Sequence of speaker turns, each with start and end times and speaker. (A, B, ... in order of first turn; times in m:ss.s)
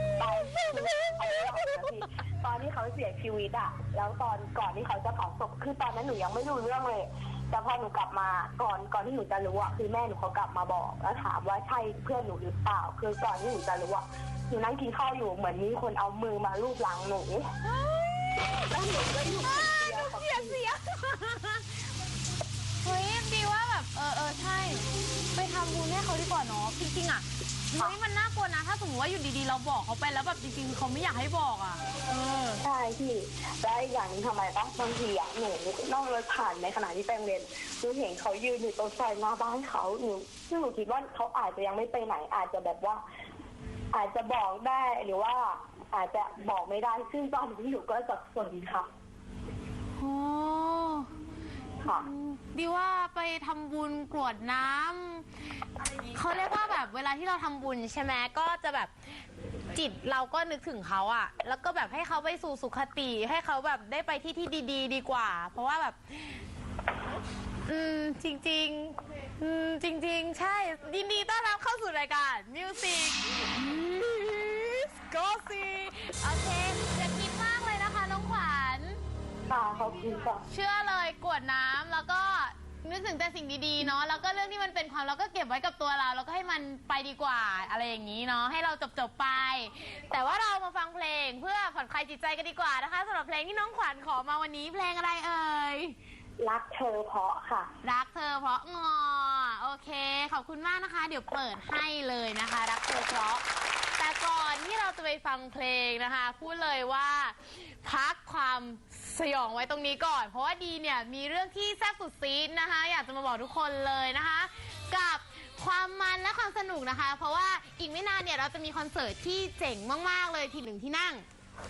0:00.2-0:17.5 A
0:17.6-0:18.8 B
0:18.7-0:20.6 A
0:19.3-0:21.7 B
0:22.8-0:32.6 B
0:32.6-0:43.0 A
0:43.9-0:48.9 A
0:50.0-0:51.1 B
0:51.9-0:55.3 B
0:56.1-0:58.9 B
0:59.7-1:06.4 B
1:07.7-1:19.0 B
1:19.5-1:20.4 A
1:20.5-1:36.0 B
1:36.4-1:37.7 A
1:37.8-1:43.4 B
1:44.0-2:01.3 B